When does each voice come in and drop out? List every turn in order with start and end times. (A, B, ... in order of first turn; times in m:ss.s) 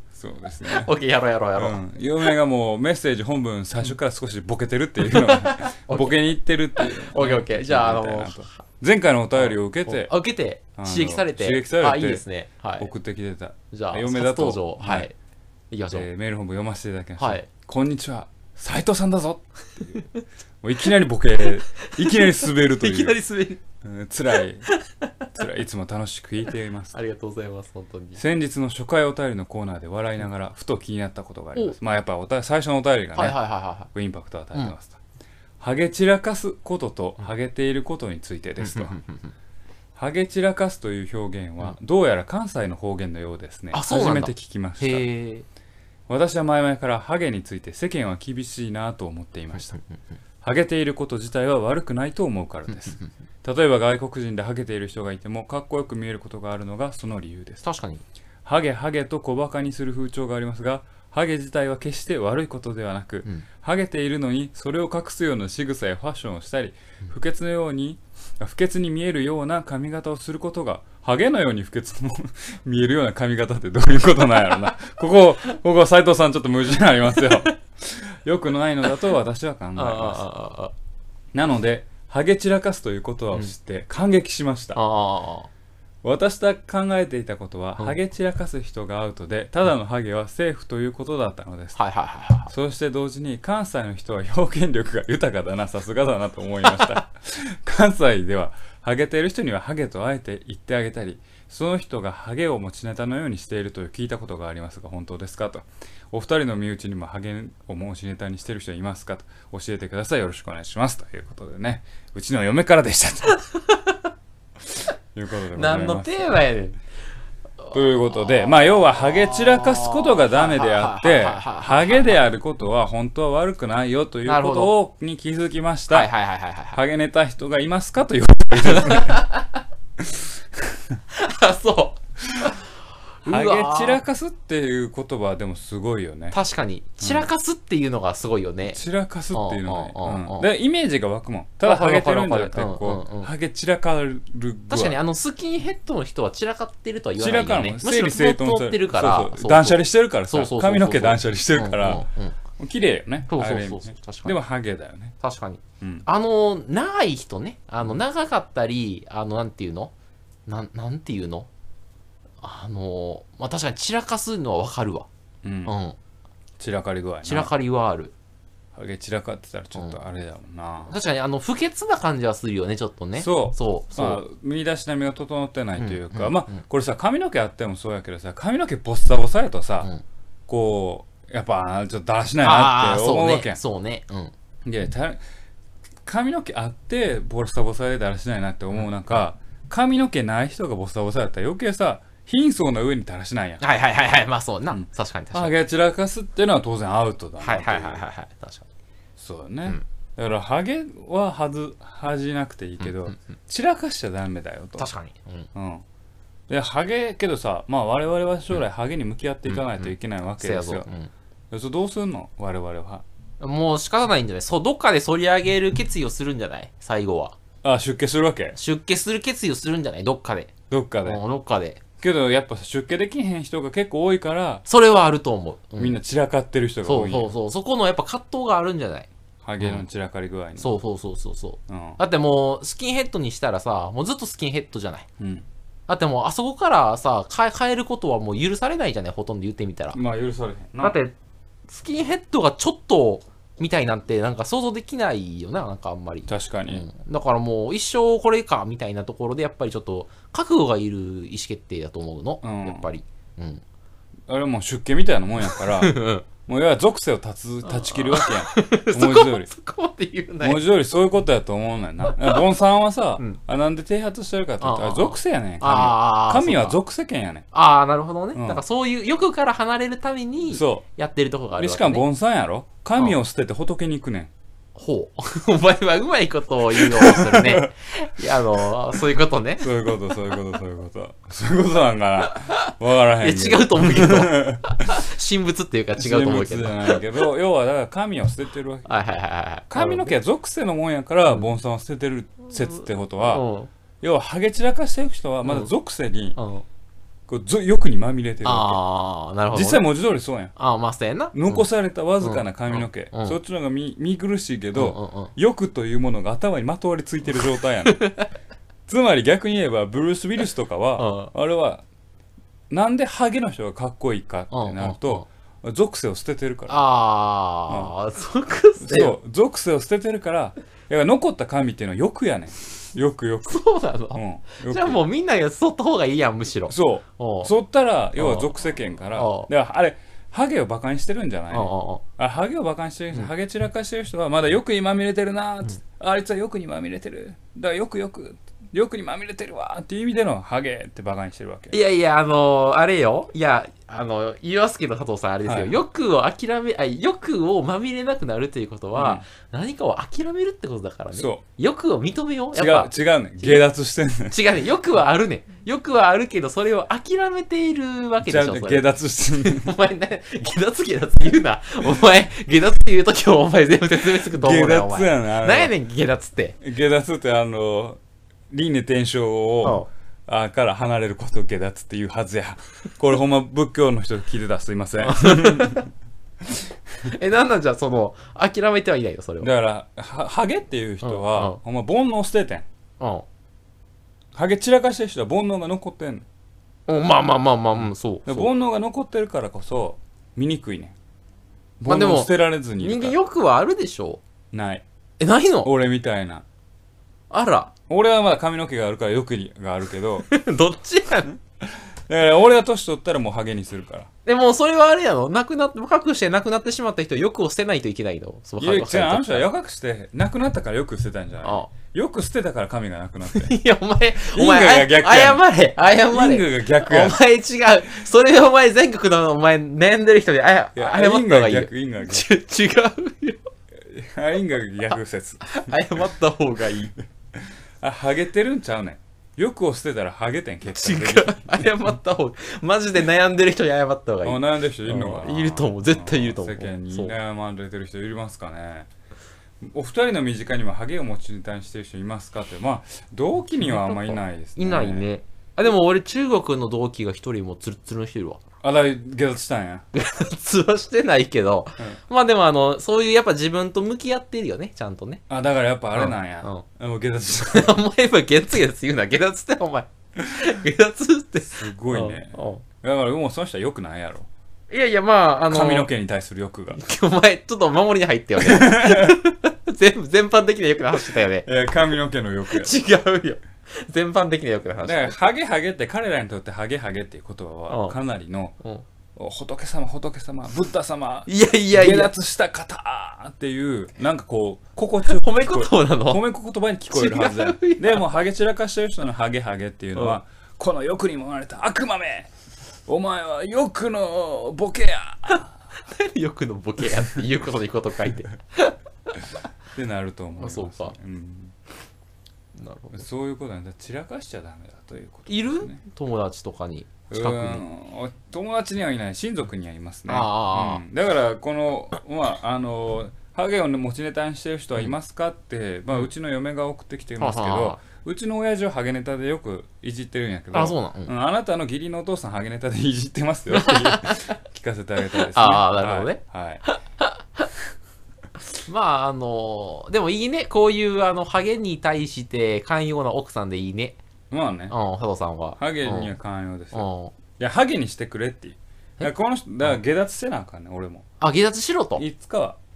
0:00.1-0:00.9 A
0:00.7-0:01.8 B
0:01.6-0:10.1 A
0:05.0-0:08.6 B
0:09.4-0:12.9 B
0:10.8-0:12.2 A
0:12.8-0:15.1 A
0:13.7-0:15.1 B
0:15.7-0:16.1 B
0:15.9-0:20.0 A
0:17.2-0:17.5 B
0:20.6-0:23.2 A
0:21.4-0:23.6 B
0:23.8-0:24.7 A
0:24.7-0:25.3 B
0:25.4-0:27.0 A
0:26.9-0:28.2 B
0:28.2-0:33.4 A
0:33.2-0:33.9 B
0:33.9-0:35.0 A
0:35.6-0:39.0 A
0:38.6-0:39.3 B
0:40.0-0:45.0 A
0:43.7-0:45.5 B
0:46.1-0:49.7 A
0:49.6-0:50.0 B
0:50.4-0:57.6 A
0:57.6-0:58.0 B
0:58.4-1:20.2 A
1:19.8-1:20.7 B
1:21.3-1:24.8 A
1:24.8-1:25.5 B
1:26.0-1:31.8 A
1:31.8-1:32.5 B
1:32.5-1:53.4 A
1:53.5-1:54.0 B
1:55.1-1:56.1 A
1:55.5-1:56.8 B
1:57.7-1:58.6 B
1:57.7-2:06.1 A
1:59.2-2:02.2 B
2:04.3-2:04.7 B
2:05.9-2:06.8 B
2:06.7-2:09.3 A
2:08.6-2:09.6 B
2:10.0-2:11.0 A
2:11.1-2:12.6 B
2:13.2-2:14.0 B
2:13.3-2:16.4 A
2:16.3-2:18.8 B
2:17.0-2:17.3 A
2:18.7-2:25.0 A
2:19.3-2:20.5 B
2:21.6-2:23.3 B
2:24.7-2:32.4 B
2:27.2-2:35.2 A
2:33.3-2:34.4 B
2:35.2-2:39.9 B
2:40.5-2:41.5 B
2:42.4-2:45.1 B
2:45.4-2:45.7 A
2:45.6-2:46.0 B
2:46.6-2:47.5 A
2:47.2-2:48.1 B
2:48.7-2:51.0 A
2:50.9-2:54.2 B
2:53.2-2:59.9 A
2:55.8-2:56.6 B
3:00.5-3:03.6 A
3:02.4-3:04.3 B
3:04.6-3:05.2 A
3:06.0-3:13.6 A
3:13.6-3:15.5 B
3:14.7-3:18.0 A
3:17.4-3:18.7 B
3:19.2-3:24.9 A
3:24.8-3:25.5 B
3:25.5-3:25.8 A
3:26.5-3:30.9 A
3:29.5-3:31.1 B
3:31.5-3:33.0 A
3:33.4-3:37.4 B
3:37.6-3:38.6 A
3:38.6-3:40.5 B
3:40.7-3:41.2 A
3:41.0-3:41.8 B
3:42.0-3:44.6 A
3:44.7-3:46.0 B
3:45.8-3:47.3 A
3:46.8-3:49.1 B
3:49.4-3:50.8 A
3:50.6-3:55.1 B
3:51.7-3:52.0 A
3:55.2-3:55.5 A
3:55.9-4:00.0 B
3:59.9-4:01.0 A
4:00.8-4:01.2 B
4:01.7-4:13.6 B
4:06.3-4:06.9 A
4:12.4-4:12.9 A
4:14.3-4:19.5 A
4:15.5-4:16.3 B
4:17.6-4:20.6 B
4:20.4-4:27.5 A
4:22.2-4:22.4 B
4:24.6-4:26.8 B
4:27.5-4:32.0 B
4:28.4-4:28.6 A
4:30.5-4:30.8 A
4:31.6-4:34.3 A
4:34.8-4:39.9 B
4:36.8-4:37.7 A
4:38.2-4:39.0 A
4:39.6-4:45.0 A
4:42.2-4:47.0 B
4:46.0-4:48.9 A
4:48.9-4:50.1 B
4:49.7-4:53.4 A
4:53.2-4:53.7 B
4:54.0-4:56.4 A
4:55.4-4:55.7 B
4:56.4-4:56.6 B
4:57.3-4:58.8 A
4:58.4-4:59.9 B
4:59.5-5:00.5 A
5:00.6-5:01.7 B
5:01.3-5:08.0 A
5:02.2-5:03.4 B
5:04.8-5:05.3 B
5:07.8-5:08.3 B
5:08.9-5:11.8 A
5:11.0-5:11.3 B
5:12.7-5:16.8 A
5:14.5-5:15.3 B
5:16.7-5:19.2 B
5:17.7-5:17.9 A
5:18.8-5:23.6 A
5:23.5-5:27.5 B
5:24.1-5:25.0 A
5:26.7-5:41.8 A
5:28.2-5:28.5 B
5:29.1-5:29.5 B
5:31.5-5:32.0 B
5:41.7-5:53.7 B
5:45.4-5:45.8 A
5:49.0-5:49.3 A
5:51.1-5:51.4 A
5:52.5-5:54.4 A
5:54.2-6:06.6 B
5:58.2-5:59.7 A
6:04.2-6:05.7 A
6:06.6-6:15.9 A
6:09.6-6:09.9 B
6:15.0-6:15.9 B
6:16.4-6:17.1 A
6:17.0-6:19.5 B
6:19.4-6:22.7 A
6:21.0-6:21.6 B
6:23.0-6:23.3 B
6:24.3-6:26.3 A
6:26.9-6:28.5 B
6:28.3-6:31.0 A
6:31.8-6:33.2 A
6:31.9-6:34.2 B
6:34.5-6:34.8 A
6:35.2-6:35.7 B
6:35.6-6:36.4 A
6:37.3-6:37.7 B
6:37.9-6:40.3 A
6:40.3-6:41.4 B
6:41.6-6:44.1 A
6:44.3-6:49.5 B
6:48.6-6:53.6 A
6:51.4-6:51.7 B
6:53.3-7:03.4 B
6:54.3-6:55.4 A
6:56.1-6:57.2 A
7:00.8-7:02.3 A
7:03.8-7:05.7 A
7:05.4-7:07.0 B
7:07.4-7:11.6 A
7:10.7-7:17.2 B
7:14.2-7:18.9 A
7:19.6-7:25.1 A
7:23.6-7:28.4 B
7:28.6-7:29.8 A
7:29.9-7:35.2 B
7:35.3-7:37.8 A
7:36.0-7:36.6 B
7:37.4-7:42.6 B
7:41.5-7:44.3 A
7:44.7-7:45.9 B
7:45.5-7:46.8 A
7:46.7-7:51.5 B
7:48.4-7:49.2 A
7:51.2-7:52.8 A
7:52.5-7:55.2 B
7:54.8-7:58.6 A
7:57.7-7:58.0 B
7:58.6-7:58.8 B
7:59.2-8:12.3 A
8:01.3-8:02.1 B
8:05.0-8:06.2 B
8:06.9-8:08.0 B
8:12.9-8:15.5 A
8:15.8-8:19.4 B
8:19.7-8:21.6 A
8:20.4-8:21.0 B
8:22.6-8:23.0 B
8:22.9-8:25.8 A
8:25.3-8:27.6 B
8:27.1-8:46.6 A
8:30.1-8:30.8 B
8:37.2-8:37.8 B
8:40.5-8:41.1 B
8:43.5-8:44.3 B
8:45.3-8:47.5 B
8:48.7-8:54.0 B
8:54.3-8:54.8 A
8:54.7-8:56.1 B
8:55.6-9:01.1 A
8:56.7-8:57.1 B
9:01.2-9:02.0 B
9:02.0-9:02.6 A